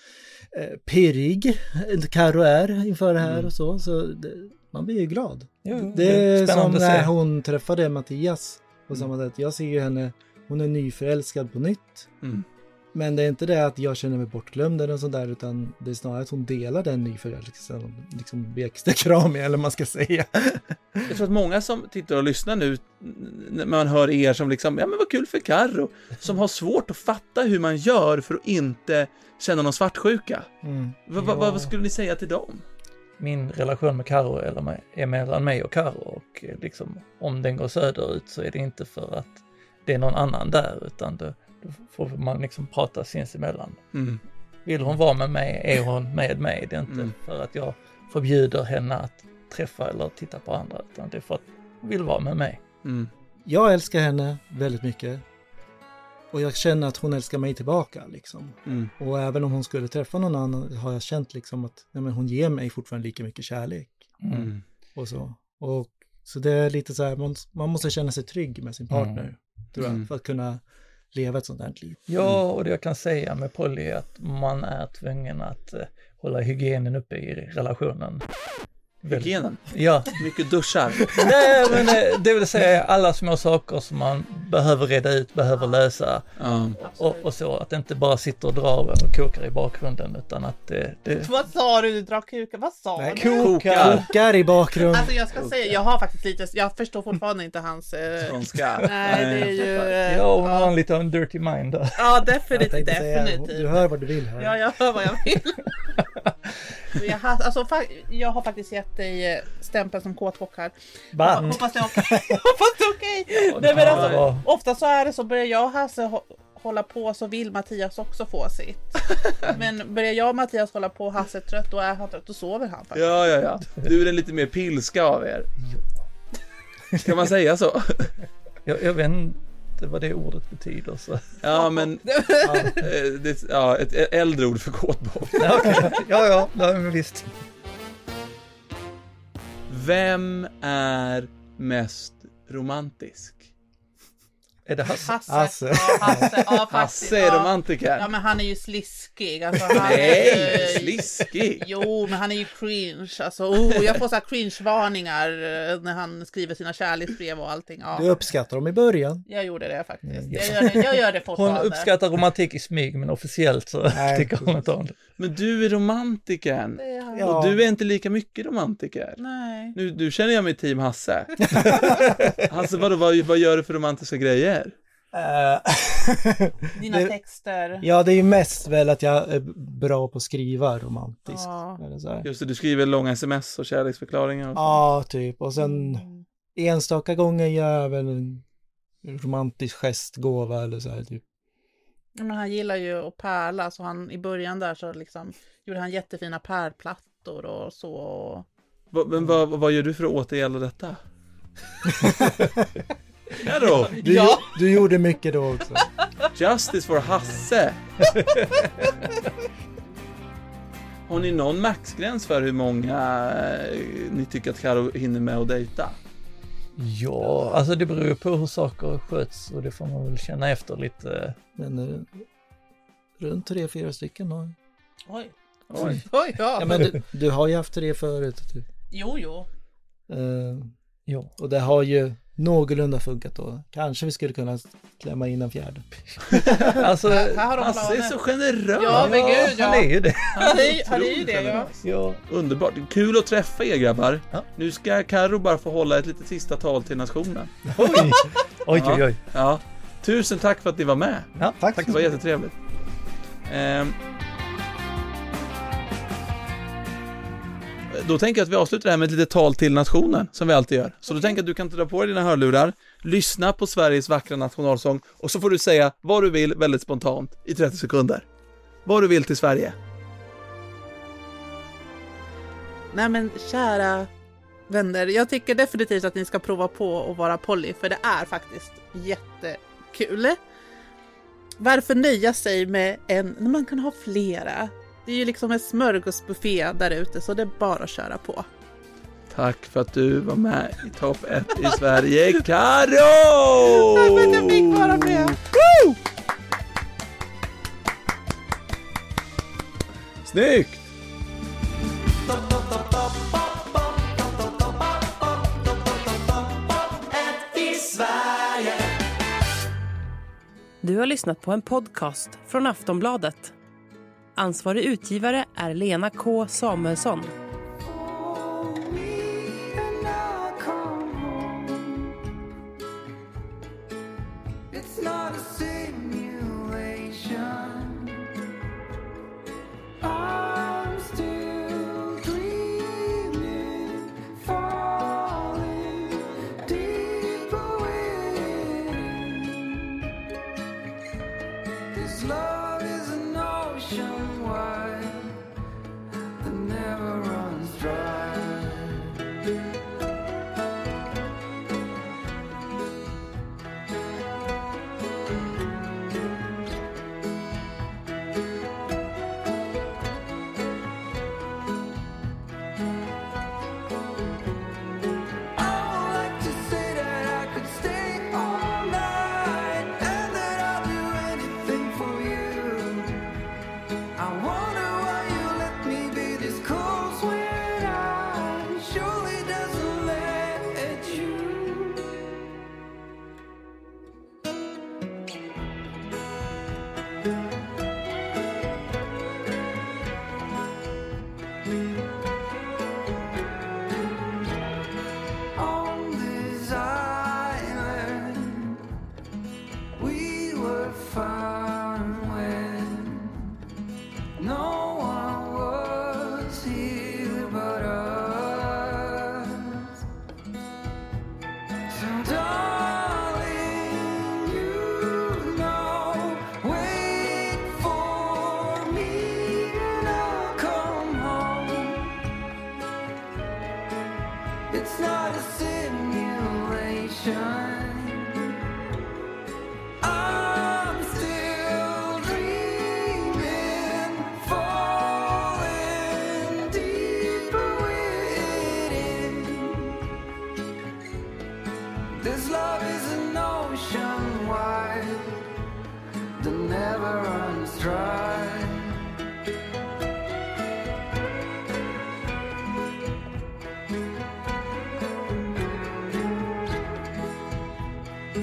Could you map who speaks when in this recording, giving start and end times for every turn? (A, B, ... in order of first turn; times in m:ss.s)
0:00.5-0:12.1 A
0:03.2-0:03.5 B
0:05.6-0:07.1 C
0:12.9-0:21.2 A
0:21.1-0:30.5 B
0:30.6-0:31.2 A
0:31.1-0:32.6 B
0:33.2-0:43.8 C
0:43.9-0:44.2 B
0:44.7-0:52.6 C
0:46.9-0:47.1 B
0:52.8-0:53.1 B
0:53.4-0:55.2 A
0:56.3-1:12.1 A
0:58.7-0:58.9 B
1:04.2-1:04.5 C
1:04.3-1:04.6 B
1:08.9-1:09.3 C
1:09.8-1:10.1 B
1:12.1-1:18.3 C
1:19.0-1:20.3 C
1:19.0-1:21.2 B
1:21.0-1:26.3 C
1:26.4-1:26.8 B
1:26.8-1:27.3 D
1:26.8-1:31.3 C
1:31.2-1:33.5 D
1:33.0-1:35.1 A
1:33.2-1:34.1 C
1:33.4-1:34.1 B
1:34.9-1:40.7 D
1:38.2-1:39.9 B
1:40.0-1:42.2 C
1:42.0-1:43.9 D
1:42.5-1:44.6 A
1:44.4-1:45.7 D
1:46.9-2:03.0 D
1:51.2-1:51.6 C
1:53.5-1:54.2 B
1:53.6-1:54.5 C
2:02.9-2:05.5 B
2:07.0-2:08.1 B
2:08.6-2:11.4 C
2:11.4-2:12.1 B
2:11.6-2:12.9 D
2:12.5-2:12.7 A
2:12.7-2:15.9 B
2:15.4-2:17.3 C
2:19.7-2:23.5 B
2:24.7-2:25.2 C
2:25.0-2:38.1 D
2:25.3-2:26.3 A
2:26.7-2:28.1 B
2:29.8-2:31.7 B
2:38.0-2:39.3 A
2:39.3-2:41.9 D
2:40.1-2:40.8 A
2:41.4-2:45.0 C
2:43.9-2:44.7 A
2:45.2-2:49.2 B
2:46.8-2:47.3 D
2:47.1-2:47.6 A
2:49.2-2:49.8 D
2:49.7-2:51.8 B
2:51.5-2:52.3 A
2:52.4-2:54.8 B
2:55.1-2:57.2 A
2:56.8-2:57.9 D
2:57.8-3:02.3 A
3:01.3-3:01.8 D
3:02.2-3:04.8 B
3:04.6-3:08.4 A
3:05.6-3:06.2 D
3:09.0-3:11.2 A
3:12.2-3:18.5 D
3:18.9-3:21.0 B
3:21.9-3:22.7 A
3:23.4-3:24.0 B
3:24.0-3:24.5 D
3:24.0-3:25.9 A
3:26.4-3:27.8 B
3:28.1-3:28.7 C
3:31.1-3:36.0 B
3:36.8-3:41.4 C
3:41.6-3:42.2 A
3:43.2-3:44.6 A
3:45.1-3:46.9 D
3:45.7-3:46.0 B
3:46.6-3:48.7 A
3:46.6-3:47.0 C
3:48.9-3:49.5 D
3:50.1-3:50.8 A
3:51.4-3:56.9 A
3:56.6-3:57.6 C
3:57.1-3:58.2 D
3:57.6-3:59.6 B
3:58.7-4:01.7 D
3:58.9-4:00.6 C
4:00.3-4:07.7 B
4:01.8-4:02.2 C
4:07.7-4:09.2 C
4:08.7-4:12.6 B
4:11.4-4:12.1 C
4:11.6-4:12.0 A
4:13.5-4:14.0 B
4:17.9-4:28.2 B
4:28.8-4:29.8 B
4:32.9-4:34.1 D
4:34.7-4:40.4 D
4:41.6-4:48.4 D
4:49.3-4:55.9 B
4:53.8-4:55.4 D
5:00.3-5:00.8 B
5:07.4-5:08.6 E
5:10.8-5:13.5 F
5:14.4-5:17.4 F
5:17.8-5:22.2 E
5:24.7-5:28.3 E
5:30.0-5:40.0 E
5:41.9-5:45.4 E
5:46.4-5:49.2 E
6:05.6-6:13.3 E
6:14.2-6:22.3 E
6:35.6-6:38.8 E
6:40.0-6:43.5 E
6:44.4-6:50.0 E
6:51.9-7:02.2 E
7:04.7-7:08.5 E
7:10.0-7:20.0 E
7:22.1-7:25.4 E
7:26.4-7:29.1 E